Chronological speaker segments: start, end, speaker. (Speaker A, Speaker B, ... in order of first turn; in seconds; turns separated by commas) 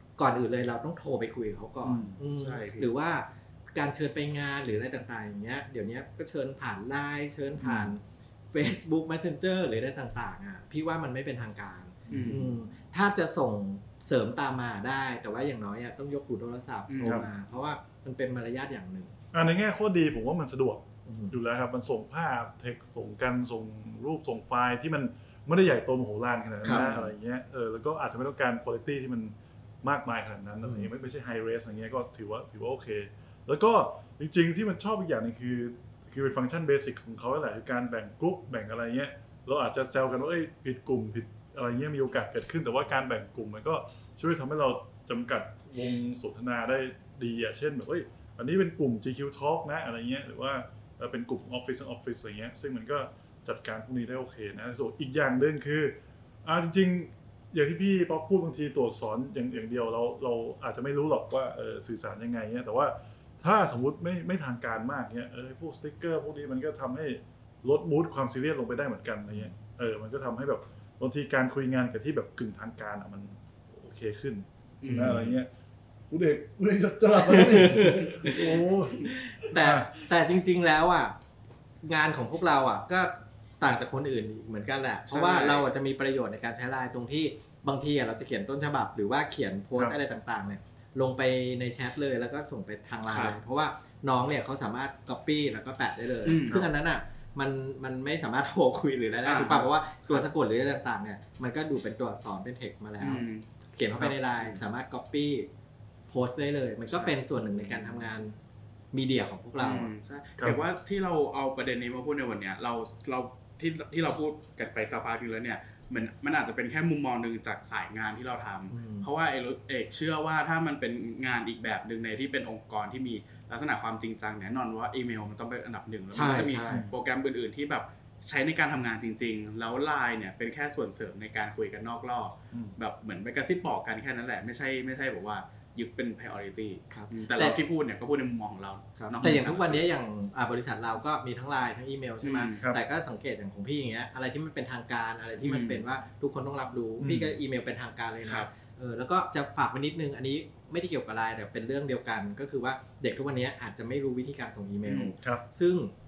Speaker A: 0.2-19.1, Speaker B: 1.8-2.2, Speaker C: 2.4-2.9, Speaker B: 7.6-7.9, Speaker B: 12.1-12.5, Speaker C: 12.1-12.5, Speaker C: 16.9-17.3, Speaker B: 19.3-75.5, Speaker A: 21.1-21.3, Speaker A: 26.6-26.9, Speaker C: 26.6-27.1, Speaker A: 30.6-30.9, Speaker C: 74.8-75.4, Speaker B: 76.1-79.9, Speaker A: 77.2-81.1, Speaker A: 81.8-105.5, Speaker C: 85.1-85.7, Speaker C: 93.1-93.3, Speaker C: 96.2-96.6, Speaker C: 99.2-100.3, Speaker C: 103.0-103.4, Speaker C: 104.4-104.6, Speaker A: 106.1-108.3, Speaker A: 108.9-109.9, Speaker C: 109.6-139.8, Speaker A: 118.7-119.1, Speaker A: 126.1-126.9, Speaker B: 126.7-126.9, Speaker A: 136.9-137.6, Speaker A: 139.0-155.9, Speaker B: 139.2-139.4, Speaker C: 142.2-142.6, Speaker C: 145.4-145.8, Speaker B: 147.0-147.3, Speaker C: 154.8-155.1, Speaker B: 155.1-155.4